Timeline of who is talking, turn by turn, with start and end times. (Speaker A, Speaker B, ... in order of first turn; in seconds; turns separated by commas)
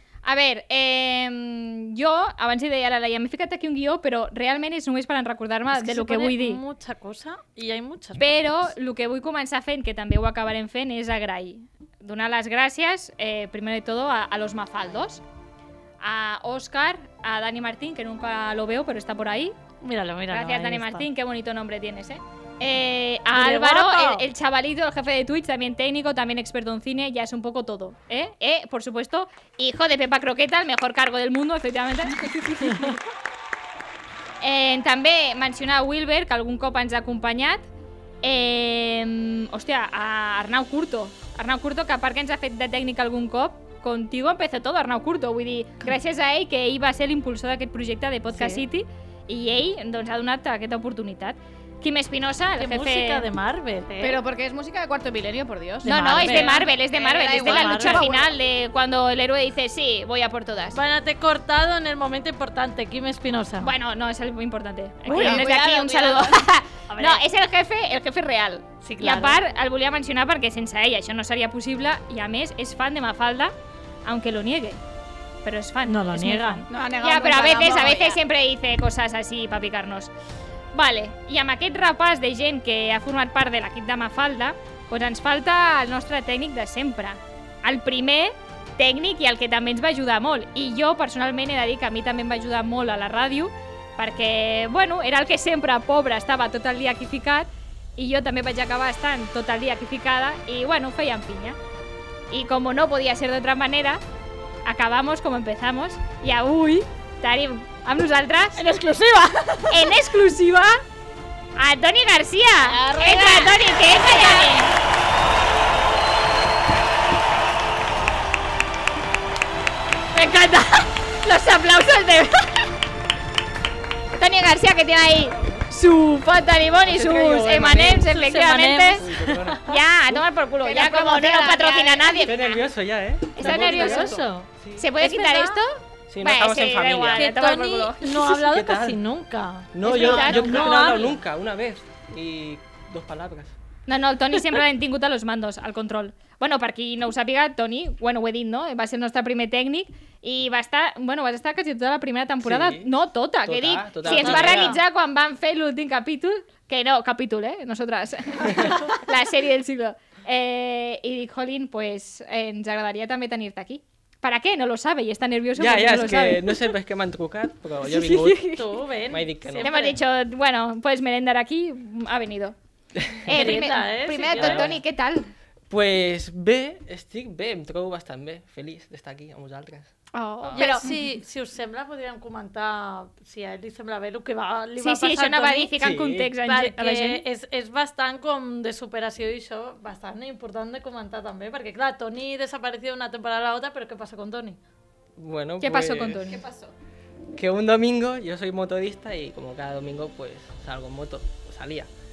Speaker A: 0.2-6.6, Speaker B: 5.7-8.5, Speaker A: 8.2-15.2, Speaker A: 16.0-19.6, Speaker B: 19.8-21.1, Speaker A: 20.3-33.0, Speaker B: 23.3-24.2, Speaker A: 34.4-37.7, Speaker A: 38.2-53.2, Speaker B: 48.3-48.6, Speaker B: 52.6-54.2, Speaker C: 54.0-58.3, Speaker B: 55.8-56.8, Speaker A: 55.9-60.8, Speaker B: 57.3-58.1, Speaker B: 60.7-63.8, Speaker A: 63.6-74.8, Speaker B: 65.1-65.5, Speaker C: 65.1-66.4, Speaker B: 66.9-67.2, Speaker B: 68.8-69.4, Speaker A: 75.5-80.1, Speaker B: 75.9-76.7, Speaker C: 76.7-78.2, Speaker A: 80.7-101.6, Speaker A: 102.3-104.0, Speaker A: 104.7-108.6, Speaker C: 108.6-109.8, Speaker A: 109.7-110.8, Speaker A: 111.6-114.7, Speaker C: 112.7-114.6, Speaker A: 120.2-122.7, Speaker A: 124.1-129.0, Speaker D: 126.9-128.1, Speaker B: 128.0-129.7, Speaker D: 129.0-130.2, Speaker A: 129.7-132.6, Speaker C: 130.6-132.3, Speaker D: 132.2-134.8, Speaker A: 133.4-134.2, Speaker B: 133.4-135.6, Speaker A: 134.8-138.3, Speaker D: 136.1-137.3, Speaker B: 137.1-141.2, Speaker D: 138.3-139.0, Speaker D: 139.7-143.6, Speaker A: 139.8-140.7, Speaker A: 143.9-166.6, Speaker D: 152.4-154.8, Speaker B: 154.0-154.8, Speaker D: 165.6-168.6, Speaker A: 167.9-168.6, Speaker B: 168.5-170.0, Speaker D: 169.1-169.7, Speaker A: 169.6-172.6, Speaker D: 173.0-173.6, Speaker A: 173.3-175.3, Speaker B: 173.3-174.8, Speaker D: 174.3-174.8, Speaker D: 175.7-180.6, Speaker A: 180.1-180.9, Speaker B: 180.6-185.8, Speaker C: 180.6-180.8, Speaker A: 184.8-187.2, Speaker D: 185.8-186.3, Speaker B: 186.4-194.6, Speaker D: 195.2-196.4, Speaker A: 195.6-196.4, Speaker C: 196.3-196.7, Speaker D: 197.3-201.9